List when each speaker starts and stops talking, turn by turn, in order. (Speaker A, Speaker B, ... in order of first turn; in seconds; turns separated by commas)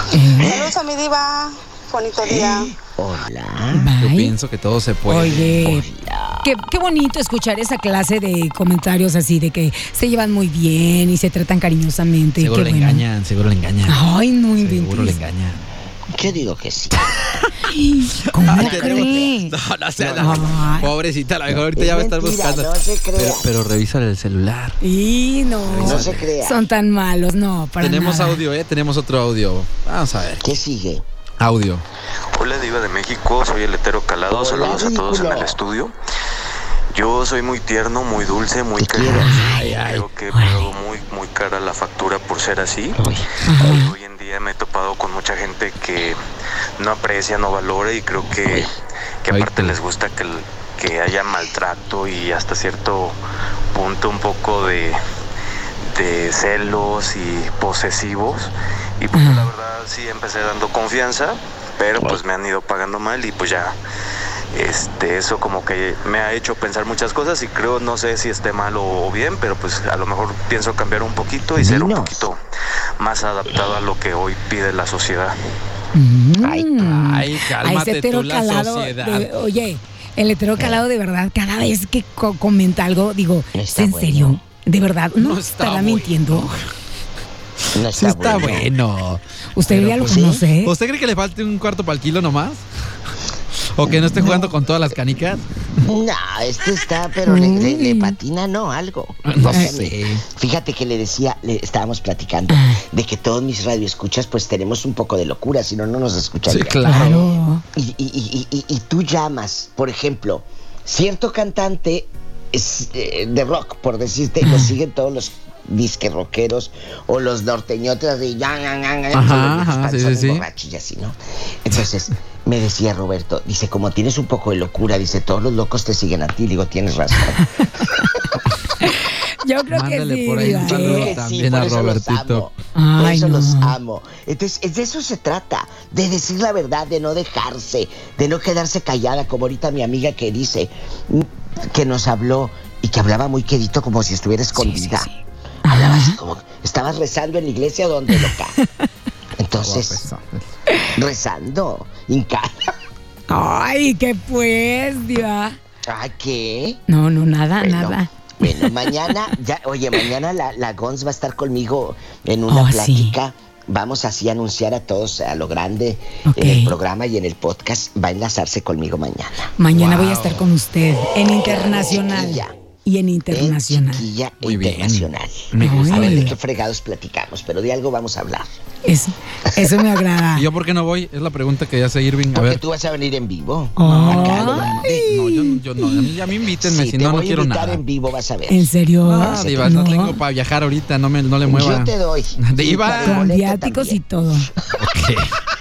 Speaker A: 0.1-0.6, Speaker B: 0.4-2.7, Speaker C: 2.4-3.9, Speaker A: 3.7-4.3, Speaker D: 4.0-5.8, Speaker A: 5.1-5.9, Speaker C: 5.5-6.5, Speaker A: 6.4-13.0, Speaker D: 12.4-14.0, Speaker A: 13.9-15.2, Speaker D: 14.6-15.6, Speaker C: 16.1-17.4, Speaker A: 17.6-19.5, Speaker D: 18.2-24.8, Speaker C: 18.5-19.3, Speaker C: 20.0-20.5, Speaker A: 20.2-20.9, Speaker C: 21.5-23.5, Speaker A: 24.8-28.4, Speaker D: 25.7-26.3, Speaker C: 25.8-26.6, Speaker D: 27.8-30.4, Speaker C: 30.4-31.0, Speaker D: 31.4-31.9, Speaker E: 32.3-35.9, Speaker C: 34.3-35.6, Speaker E: 36.9-43.0, Speaker C: 38.8-39.5, Speaker D: 39.1-40.1, Speaker A: 39.2-39.5, Speaker A: 40.3-40.7, Speaker C: 43.0-43.8, Speaker A: 43.5-43.9, Speaker E: 43.5-46.2, Speaker E: 46.8-48.7, Speaker E: 49.2-53.2, Speaker D: 49.3-49.8, Speaker E: 53.7-55.0, Speaker E: 55.8-63.8, Speaker A: 59.1-59.5, Speaker E: 64.5-72.4, Speaker C: 71.6-72.3, Speaker E: 73.0-75.4, Speaker A: 76.0-86.5, Speaker C: 76.4-76.7, Speaker D: 76.8-79.3, Speaker C: 80.6-80.8, Speaker C: 83.5-84.4, Speaker D: 85.2-86.6, Speaker C: 87.7-88.7, Speaker D: 87.9-92.7, Speaker A: 89.6-90.7, Speaker C: 90.0-90.4, Speaker D: 93.7-95.5, Speaker C: 94.2-94.5, Speaker C: 95.8-128.4, Speaker A: 97.3-98.2, Speaker D: 99.2-100.2, Speaker A: 99.5-99.8, Speaker A: 102.5-102.8, Speaker D: 106.5-107.2, Speaker A: 106.8-107.6, Speaker D: 119.1-120.5, Speaker A: 128.8-131.1, Speaker D: 129.7-132.5, Speaker C: 130.4-145.1, Speaker A: 132.8-133.8, Speaker A: 144.6-145.1, Speaker A: 145.7-146.2, Speaker C: 145.7-148.6, Speaker A: 148.2-148.6, Speaker C: 149.4-150.0, Speaker D: 149.6-150.4, Speaker C: 150.9-152.7, Speaker A: 153.3-155.6, Speaker C: 155.8-156.8, Speaker A: 156.9-159.1, Speaker C: 157.6-169.5, Speaker A: 162.5-163.2, Speaker A: 166.2-166.8, Speaker A: 169.6-174.1, Speaker D: 169.7-170.4, Speaker C: 171.4-172.6, Speaker C: 173.3-178.5, Speaker D: 174.4-176.3, Speaker A: 175.6-176.3, Speaker A: 178.8-180.5, Speaker D: 180.4-182.6, Speaker C: 182.3-188.7, Speaker A: 183.8-184.7, Speaker D: 183.8-187.8, Speaker A: 188.5-190.2, Speaker D: 189.0-193.3, Speaker C: 189.2-190.0, Speaker C: 191.4-194.0, Speaker A: 192.9-194.5, Speaker D: 194.7-195.4